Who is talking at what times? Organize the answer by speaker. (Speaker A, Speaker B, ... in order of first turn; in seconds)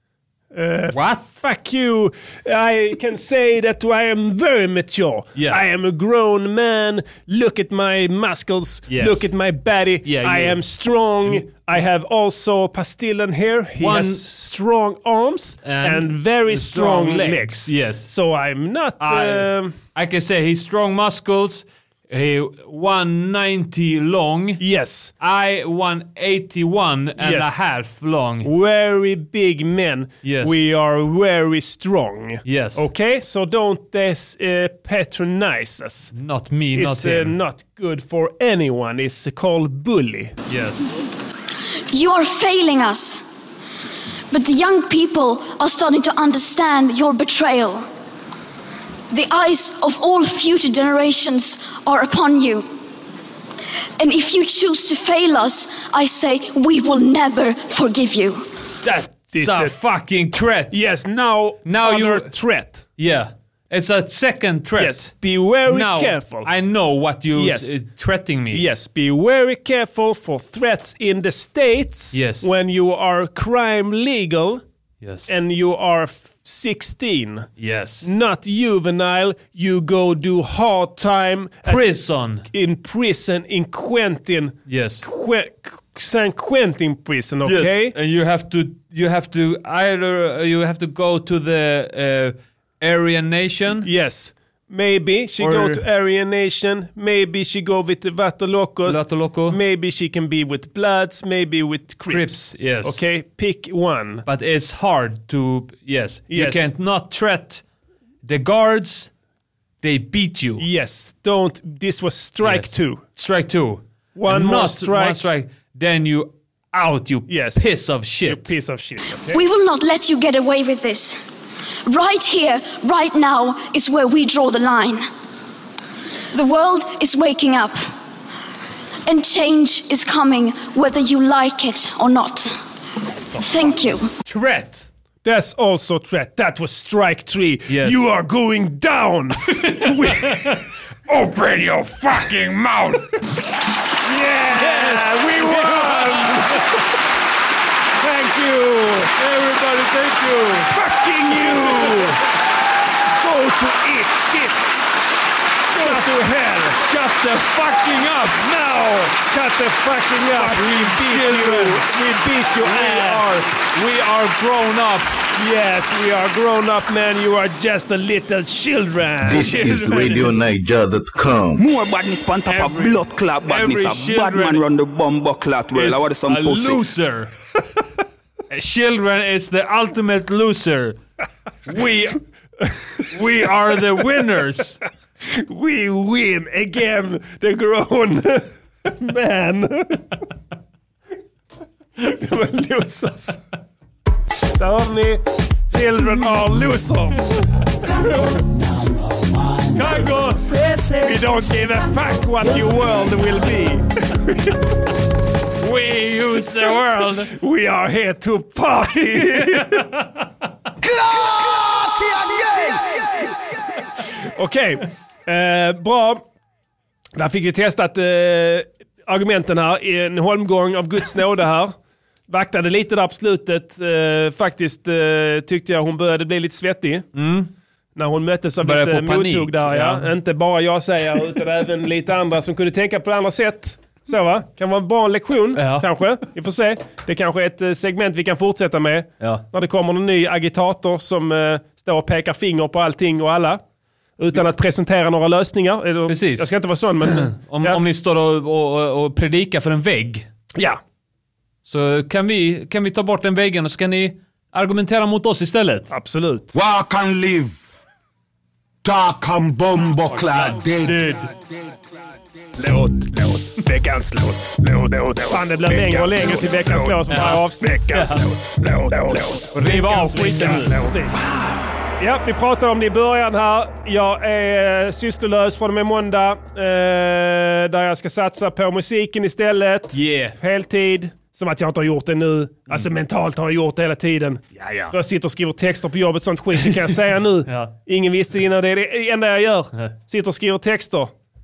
Speaker A: 0.5-19.7, 24.6-25.1, 27.2-27.6, 28.4-36.1, 36.7-40.3, 59.3-59.8, 60.7-62.9, 64.8-66.5, 67.3-67.8, 68.5-74.6, 75.3-77.5, 78.0-81.8, 82.5-87.9, 93.8-104.2, 106.3-106.7, 110.6-113.0, 114.1-115.3, 117.3-117.6, 118.2-119.4, 133.3-133.8, 135.2-140.6, 144.0-146.7, 148.0-149.1, 150.7-152.2, 153.2-154.6, 155.7-156.8, 158.7-163.5, 165.3-169.9, 185.3-190.1, 192.0-193.4, 194.5-197.4, 201.0-204.6, 207.2-209.9, 214.3-216.2, 217.2-221.7, 222.3-227.1, 227.9-243.6, 244.2-247.8, 250.5-250.8, 255.9-256.5, 262.6-271.2, 272.0-291.1
Speaker B: 0.9-1.4, 5.3-5.6, 8.9-9.3, 10.0-10.6, 13.8-14.3, 15.6-18.1, 19.0-24.6, 25.2-28.5, 30.2-30.6, 32.4-32.9, 36.1-37.3, 40.5-40.9, 58.8-60.8, 61.6-62.3, 63.0-68.6, 72.1-72.5, 75.0-75.3, 77.6-78.1, 81.7-82.5, 84.7-85.0, 87.4-93.9, 95.4-95.8, 98.8-99.6, 102.1-103.0, 104.2-107.6, 108.2-109.1, 109.8-110.6, 112.4-118.5, 134.2-134.9, 137.7-138.0, 139.5-143.1, 144.5-146.6, 149.2-150.7, 151.4-152.1, 155.7-156.1, 156.7-159.0, 160.3-161.9, 162.6-165.1, 169.4-170.2, 172.5-174.6, 175.7-177.3, 178.5-181.0, 181.7-182.2, 183.0-184.8, 199.7-201.5, 205.6-207.3, 209.4-209.9, 227.1-227.5, 228.6-230.1, 235.5-235.9, 246.1-250.3, 251.7-255.9, 260.8-261.3, 267.1-268.3, 269.5-270.9, 279.9-280.4, 284.5-284.9, 287.5-287.7
Speaker C: 41.9-43.2, 44.3-47.9, 49.1-52.7, 54.0-58.5, 119.3-121.2, 121.8-125.0, 126.3-127.8, 129.1-132.6, 133.4-134.1
Speaker D: 169.2-171.7
Speaker E: 171.6-176.8
Speaker F: 210.8-212.8, 256.5-257.6, 258.8-261.1